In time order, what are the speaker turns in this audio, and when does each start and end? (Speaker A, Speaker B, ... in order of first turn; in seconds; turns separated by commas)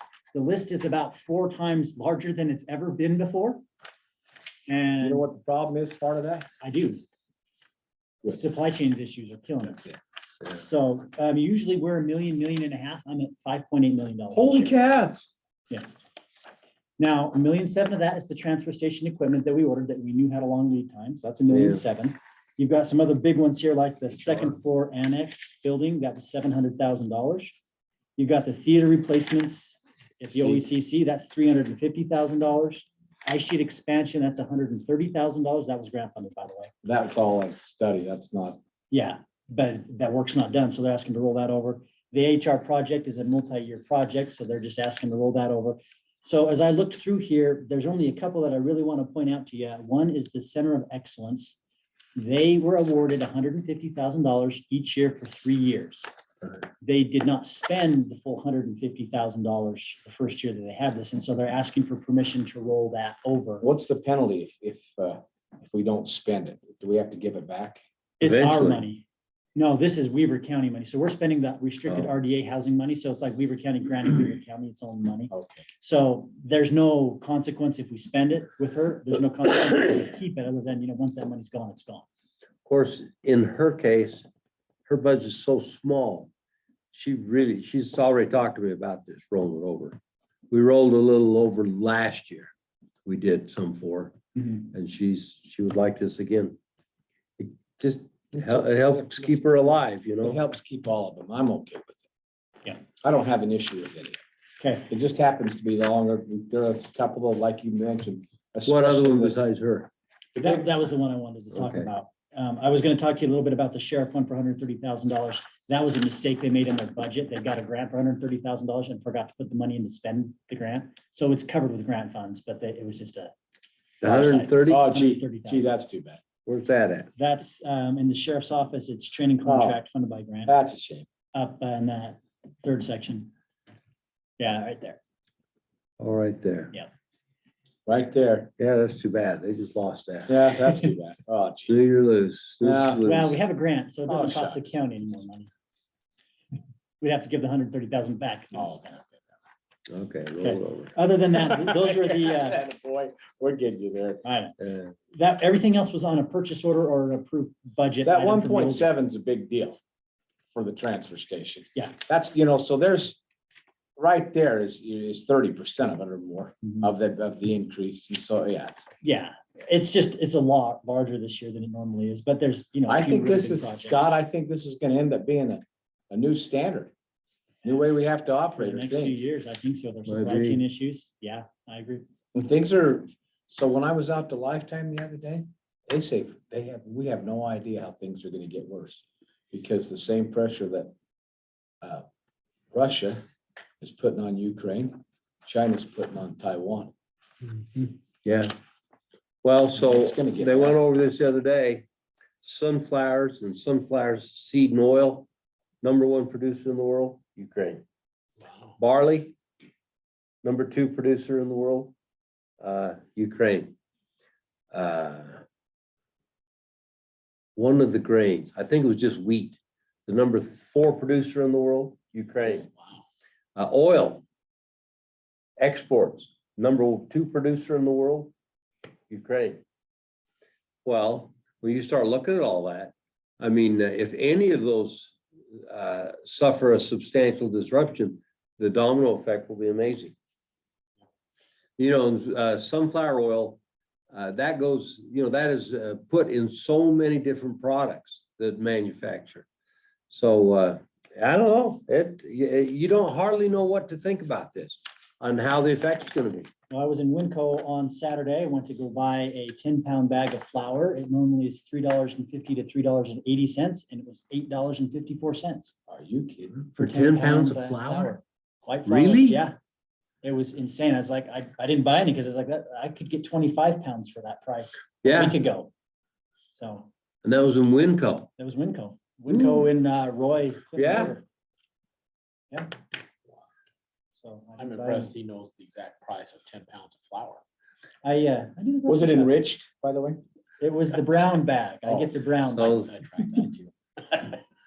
Speaker A: 0.3-3.6, Speaker A: 4.7-5.3, Speaker B: 5.0-6.5, Speaker A: 6.6-7.0, Speaker A: 8.2-9.9, Speaker A: 10.5-14.8, Speaker B: 14.3-15.3, Speaker A: 17.0-27.6, Speaker C: 21.5-21.8, Speaker A: 28.2-36.7, Speaker B: 30.3-30.6, Speaker B: 36.8-38.6, Speaker A: 38.9-51.6, Speaker A: 52.2-56.1, Speaker A: 56.8-63.7, Speaker B: 63.6-67.8, Speaker A: 68.2-82.1, Speaker C: 68.2-68.8, Speaker B: 75.3-75.7, Speaker C: 82.7-84.3, Speaker C: 84.9-86.3, Speaker C: 86.9-90.0, Speaker C: 90.5-92.5, Speaker C: 93.1-96.6, Speaker A: 94.4-94.7, Speaker C: 97.4-100.4, Speaker B: 98.3-99.6, Speaker B: 100.2-102.0, Speaker B: 103.0-104.2, Speaker A: 104.6-104.9, Speaker B: 104.9-109.4, Speaker C: 108.7-109.9, Speaker B: 110.3-110.7, Speaker A: 110.4-123.3, Speaker C: 111.5-111.9, Speaker C: 124.0-124.9, Speaker A: 124.0-125.7, Speaker B: 124.7-126.2, Speaker C: 126.5-127.1, Speaker A: 127.2-130.5, Speaker B: 129.4-129.8, Speaker B: 130.5-131.1, Speaker A: 131.3-133.3, Speaker A: 134.4-135.0, Speaker C: 136.0-136.7, Speaker B: 137.9-138.5, Speaker C: 138.6-140.4, Speaker B: 140.3-141.9, Speaker C: 141.7-143.4, Speaker B: 142.6-143.1, Speaker A: 143.1-145.5, Speaker B: 144.1-144.8, Speaker A: 147.0-149.0, Speaker B: 148.5-149.2, Speaker C: 149.9-150.9, Speaker A: 150.4-152.6, Speaker B: 151.4-154.2, Speaker A: 154.2-154.6, Speaker C: 154.6-154.9, Speaker A: 155.1-158.9, Speaker B: 158.1-159.8, Speaker B: 160.5-163.2, Speaker B: 164.0-168.9, Speaker A: 169.0-174.2, Speaker B: 172.9-176.9, Speaker B: 177.6-179.2, Speaker A: 178.6-182.1, Speaker C: 180.1-180.6, Speaker B: 182.3-190.9, Speaker B: 192.7-193.2, Speaker B: 193.8-196.9, Speaker C: 197.8-198.5, Speaker C: 199.4-201.9, Speaker B: 199.8-200.8, Speaker C: 202.4-205.3, Speaker C: 205.8-207.8, Speaker C: 208.8-209.3, Speaker C: 210.4-211.9, Speaker C: 212.6-213.7, Speaker C: 214.7-215.4, Speaker C: 217.6-222.7, Speaker C: 223.6-224.2, Speaker C: 225.6-228.3, Speaker C: 229.1-229.6, Speaker C: 230.8-240.2, Speaker C: 241.8-243.6, Speaker C: 244.1-249.5, Speaker C: 250.1-256.5, Speaker A: 256.7-265.8, Speaker B: 265.9-266.7, Speaker C: 266.7-268.1, Speaker A: 266.8-269.6, Speaker C: 268.9-269.5, Speaker A: 270.2-275.7, Speaker C: 275.0-275.4, Speaker A: 276.5-276.9, Speaker C: 277.2-278.3, Speaker A: 278.4-281.2, Speaker C: 279.3-279.7, Speaker C: 280.8-281.2, Speaker A: 284.2-285.1, Speaker B: 284.6-285.8, Speaker D: 285.0-287.3, Speaker B: 286.6-286.9, Speaker A: 288.0-289.3, Speaker B: 288.9-290.2, Speaker A: 290.6-292.9, Speaker C: 292.5-292.9, Speaker D: 292.9-293.6